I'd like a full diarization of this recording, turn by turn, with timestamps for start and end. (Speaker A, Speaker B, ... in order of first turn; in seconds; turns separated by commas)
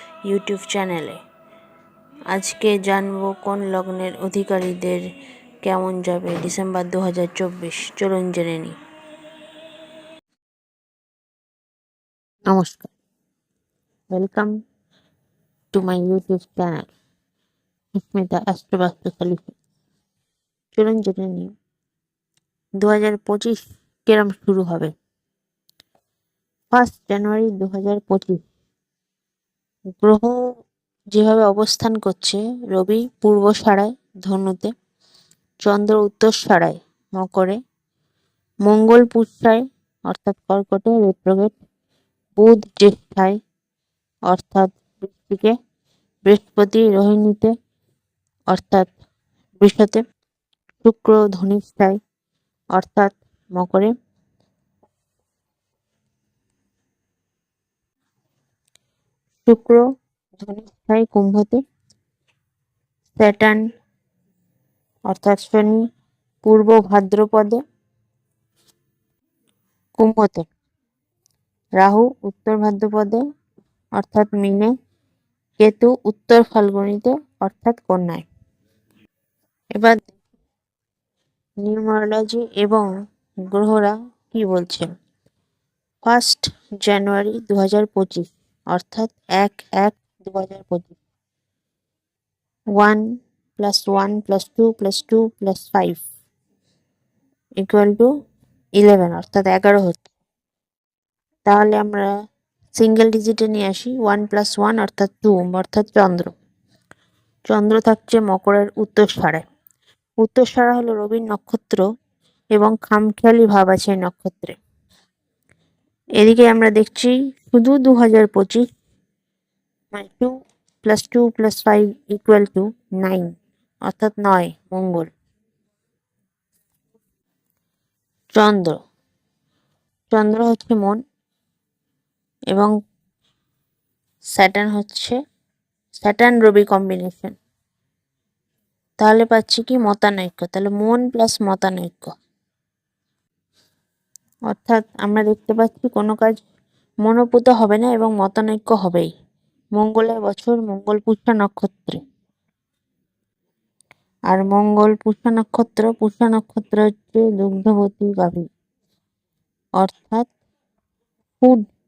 Speaker A: 0.3-1.2, Speaker A: 2.3-5.0, Speaker A: 5.6-8.8, Speaker A: 12.5-12.9, Speaker A: 14.1-14.5, Speaker A: 15.7-16.9, Speaker A: 17.9-19.5, Speaker A: 20.7-21.5, Speaker A: 22.8-24.9, Speaker A: 26.7-28.4, Speaker A: 30.0-30.3, Speaker A: 31.1-34.7, Speaker A: 35.6-37.6, Speaker A: 38.7-41.6, Speaker A: 42.4-43.4, Speaker A: 44.3-45.5, Speaker A: 46.3-47.5, Speaker A: 48.5-48.9, Speaker A: 49.6-50.0, Speaker A: 50.8-52.0, Speaker A: 52.8-53.9, Speaker A: 59.4-59.8, Speaker A: 60.4-61.6, Speaker A: 63.2-63.6, Speaker A: 65.1-65.8, Speaker A: 66.4-67.6, Speaker A: 70.0-70.5, Speaker A: 71.8-73.2, Speaker A: 74.0-74.7, Speaker A: 75.6-78.2, Speaker A: 79.7-80.1, Speaker A: 81.6-82.9, Speaker A: 83.5-84.9, Speaker A: 86.0-91.0, Speaker A: 92.8-93.0, Speaker A: 93.6-96.0, Speaker A: 97.6-98.1, Speaker A: 98.8-100.0, Speaker A: 101.5-102.1, Speaker A: 102.8-106.3, Speaker A: 107.5-109.4, Speaker A: 110.2-111.8, Speaker A: 112.5-114.6, Speaker A: 116.2-118.7, Speaker A: 119.9-120.3, Speaker A: 120.8-123.3, Speaker A: 123.9-125.1, Speaker A: 128.3-128.8, Speaker A: 130.1-131.0, Speaker A: 134.4-135.2, Speaker A: 136.0-137.3, Speaker A: 139.0-142.1, Speaker A: 144.5-146.4, Speaker A: 147.0-149.1, Speaker A: 149.8-152.0, Speaker A: 154.3-158.5, Speaker A: 159.8-160.3